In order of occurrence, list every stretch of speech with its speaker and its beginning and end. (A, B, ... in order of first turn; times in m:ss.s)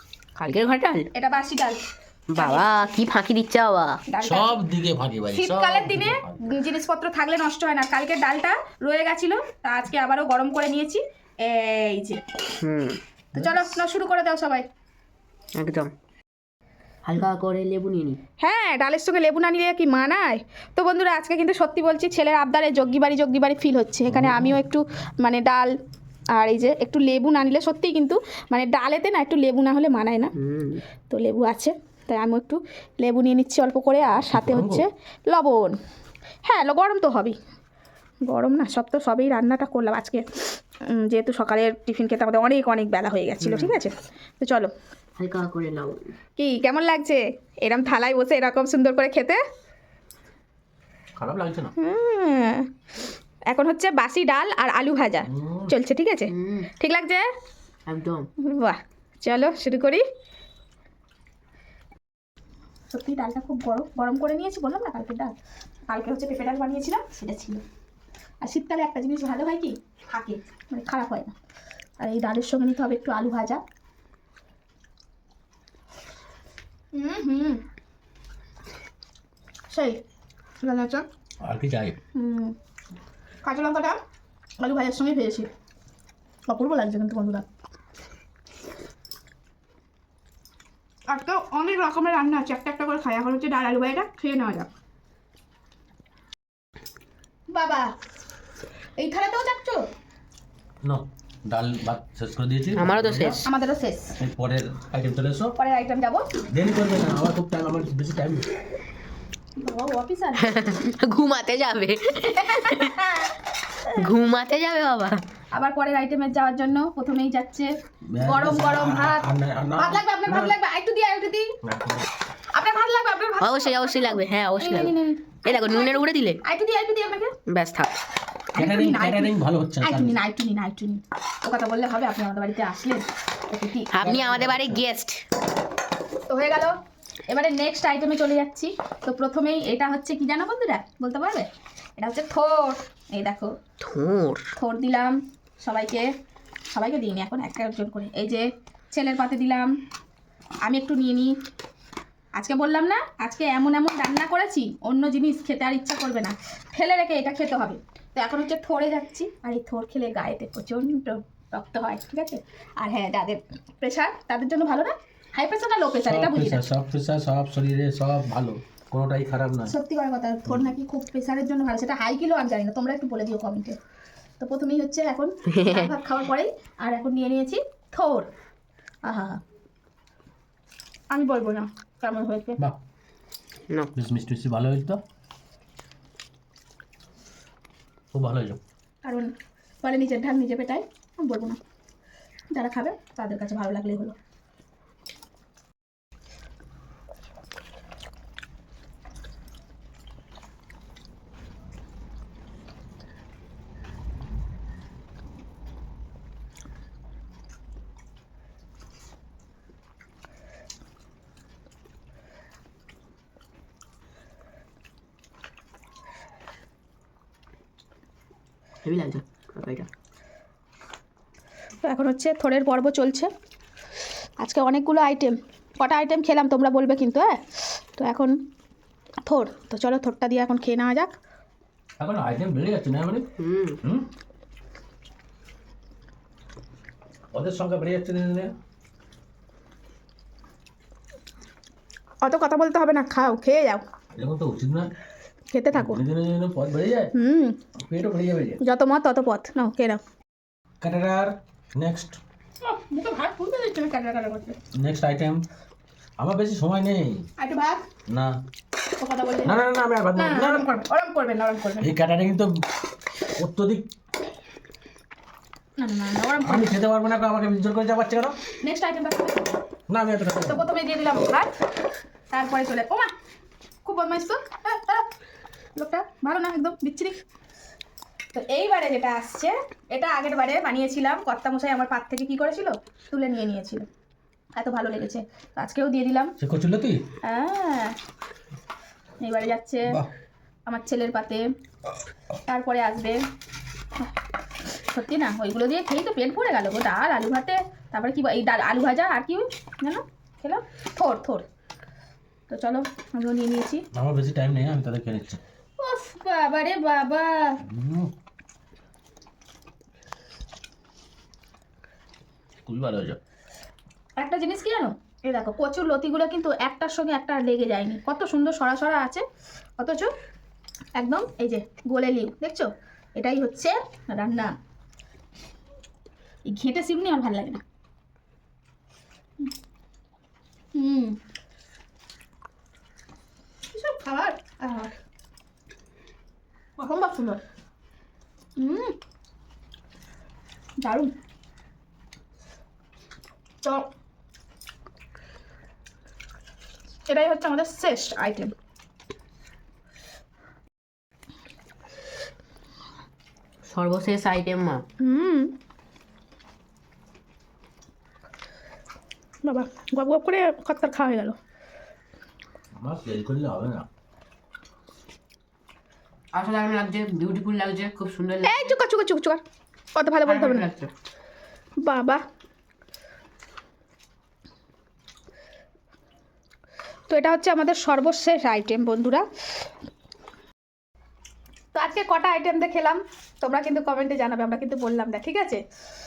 0:00.4-0:01.1 A
0:01.1-0:01.8 B
0:02.4-0:04.0 A
0:02.4-0:02.6 B
0:04.1-0:04.6 B
0:04.2-0:06.6 C
0:05.3-0:12.2 B
0:12.6-0:13.0 A
0:13.3-0:13.7 C
0:13.4-0:14.6 B
0:15.6-0:15.9 A
0:17.0-0:18.2 A
0:18.4-0:25.7 B
0:24.1-0:24.6 C
0:26.4-0:30.3 B
0:30.4-0:30.8 A
0:31.1-0:35.8 B
0:34.3-0:34.8 C
0:36.4-0:37.4 B
0:38.2-0:40.3 B
0:40.9-0:44.7 B
0:43.4-0:43.8 A
0:45.2-0:46.1 A
0:46.4-0:49.4 B
0:51.2-0:51.7 C
0:51.8-0:52.7 B
0:53.5-0:57.3 B
0:55.3-0:55.8 C
0:56.3-0:56.7 A
0:57.9-0:58.3 A
0:58.4-1:00.0 B
1:02.9-1:05.4 B
1:05.9-1:07.6 B
1:08.4-1:11.3 B
1:12.0-1:13.6 B
1:16.9-1:17.6 B
1:19.7-1:20.0 B
1:20.6-1:21.1 B
1:21.4-1:22.0 C
1:22.2-1:22.6 B
1:23.4-1:24.0 B
1:24.6-1:25.5 B
1:26.5-1:27.4 B
1:31.1-1:34.7 B
1:37.5-1:37.9 B
1:39.0-1:39.9 B
1:40.8-1:43.4 C
1:42.8-1:43.5 A
1:43.4-1:44.2 B
1:44.2-1:45.6 C
1:45.6-1:46.3 B
1:46.5-1:48.5 C
1:49.6-1:50.7 B
1:50.4-1:53.1 A
1:52.4-1:54.1 B
1:54.0-1:55.2 A
1:55.5-1:57.7 B
1:58.1-2:00.6 C
1:58.2-1:59.3 B
1:59.8-2:01.5 B
2:01.6-2:02.1 C
2:02.5-2:07.3 B
2:03.4-2:04.9 A
2:05.4-2:06.4 A
2:07.5-2:07.9 A
2:08.5-2:14.2 B
2:08.6-2:10.2 C
2:13.9-2:15.2 A
2:14.0-2:14.8 C
2:16.3-2:16.8 B
2:17.3-2:21.5 B
2:22.0-2:23.5 B
2:23.8-2:24.5 A
2:24.6-2:26.1 B
2:26.7-2:29.7 B
2:30.6-2:31.3 B
2:32.4-2:46.6 B
2:46.1-2:49.7 C
2:49.7-2:53.8 B
2:54.4-2:58.3 B
2:55.5-2:55.9 A
2:59.0-2:59.4 B
3:01.1-3:02.6 B
3:04.0-3:05.0 C
3:08.1-3:08.6 C
3:09.0-3:09.3 B
3:09.8-3:11.6 B
3:12.5-3:14.2 B
3:38.8-3:39.9 A
3:41.9-3:43.3 B
3:44.4-3:47.4 B
3:48.0-3:48.4 B
3:49.3-3:51.1 B
3:52.0-3:53.3 C
3:53.4-3:53.8 A
3:53.8-3:54.1 C
3:57.3-3:58.5 C
4:02.2-4:03.8 B
4:04.2-4:04.9 C
4:05.5-4:06.0 B
4:05.7-4:07.1 C
4:07.2-4:07.6 B
4:07.8-4:08.6 C
4:08.6-4:10.0 B
4:10.8-4:12.2 C
4:12.6-4:14.6 B
4:14.8-4:15.4 C
4:16.2-4:17.3 C
4:17.4-4:17.8 B
4:18.1-4:18.4 C
4:19.0-4:19.6 B
4:19.4-4:20.7 C
4:20.2-4:21.9 B
4:21.8-4:22.6 C
4:23.4-4:23.9 C
4:25.8-4:26.7 B
4:26.4-4:28.4 C
4:28.6-4:29.6 B
4:29.9-4:30.7 C
4:30.5-4:31.5 B
4:32.3-4:33.1 B
4:33.8-4:35.1 B
4:35.8-4:37.2 B
4:38.3-4:43.9 B
4:44.6-4:46.3 B
4:46.4-4:47.1 C
4:47.2-4:48.0 B
4:49.2-4:50.0 B
4:50.7-4:51.5 B
4:52.5-4:53.2 B
4:54.9-5:01.4 B
5:02.5-5:03.8 B
5:03.9-5:05.4 C
5:05.8-5:07.6 B
5:07.6-5:08.1 C
5:12.7-5:13.2 C
5:14.2-5:19.2 B
5:19.8-5:20.1 B
5:21.0-5:24.5 B
5:26.5-5:27.6 B
5:30.8-5:31.2 B
5:33.7-5:34.9 B
5:36.8-5:37.4 B
5:38.6-5:39.0 B
5:40.8-5:41.1 B
5:43.6-5:43.9 B
5:47.1-5:48.5 B
5:53.7-5:54.8 A
5:55.0-5:55.5 B
5:59.4-6:01.4 B
6:02.8-6:03.9 C
6:06.3-6:08.7 A
6:08.4-6:09.4 B
6:10.0-6:10.7 B
6:10.2-6:10.9 A
6:11.8-6:12.2 B
6:17.1-6:19.2 B
6:21.7-6:25.6 B